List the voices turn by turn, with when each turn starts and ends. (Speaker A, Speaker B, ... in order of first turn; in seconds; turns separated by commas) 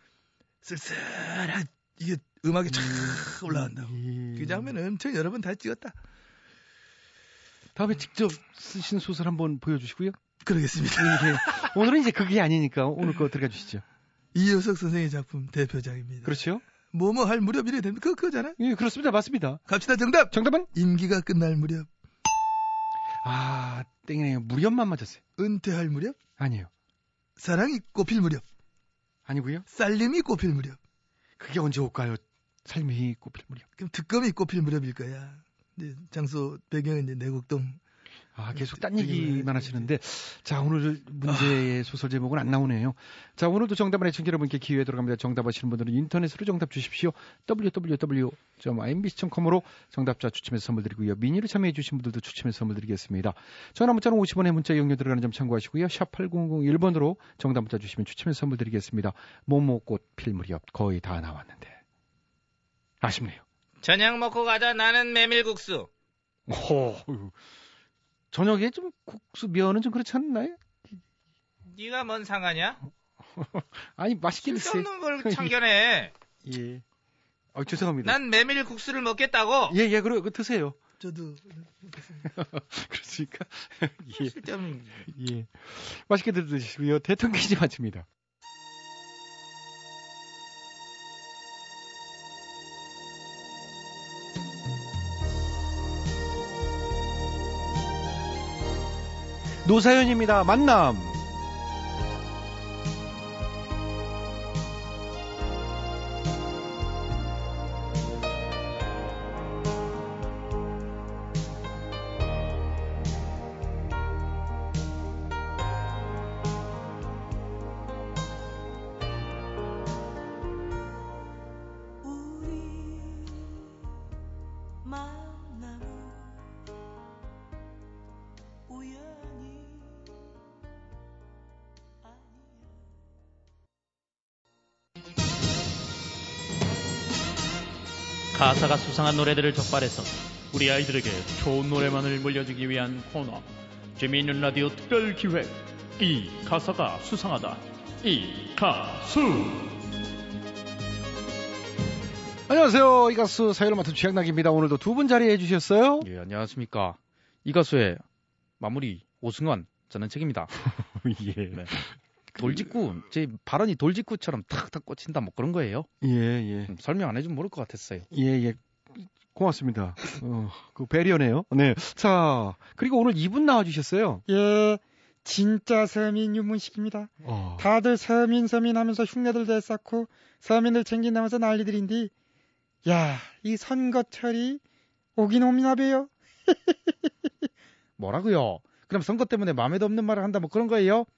Speaker A: 0.6-6.0, Speaker B: 2.7-4.7, Speaker B: 7.7-10.2, Speaker A: 10.4-11.7, Speaker B: 10.9-13.8, Speaker A: 14.3-18.6, Speaker B: 16.2-16.6, Speaker B: 18.6-19.6, Speaker A: 19.7-21.9, Speaker B: 20.3-20.7, Speaker B: 23.2-25.2, Speaker A: 25.4-26.2, Speaker B: 26.4-26.7, Speaker A: 27.4-28.4, Speaker B: 29.3-29.6, Speaker A: 29.7-30.8, Speaker B: 31.4-33.7, Speaker A: 33.8-37.8, Speaker B: 38.3-61.8, Speaker A: 38.5-39.9, Speaker A: 41.2-41.6, Speaker B: 63.0-63.4, Speaker C: 63.8-65.9, Speaker B: 66.5-67.3, Speaker B: 68.3-70.6, Speaker C: 71.7-72.8, Speaker B: 73.4-75.5, Speaker C: 74.4-76.1, Speaker B: 76.4-76.8, Speaker B: 77.5-78.2, Speaker C: 78.0-79.8, Speaker B: 79.7-80.8, Speaker A: 81.0-82.2, Speaker B: 82.2-84.4, Speaker C: 84.1-85.1, Speaker B: 85.0-88.1, Speaker B: 99.6-101.2, Speaker D: 138.3-149.6, Speaker B: 152.5-156.1, Speaker E: 156.0-158.0, Speaker E: 158.6-160.5, Speaker B: 160.8-162.6, Speaker E: 162.3-165.9, Speaker B: 166.0-166.7, Speaker E: 166.7-168.1, Speaker B: 168.1-174.2, Speaker F: 174.3-182.1, Speaker B: 177.2-177.7, Speaker F: 182.8-184.6, Speaker F: 185.2-186.7, Speaker E: 188.0-191.1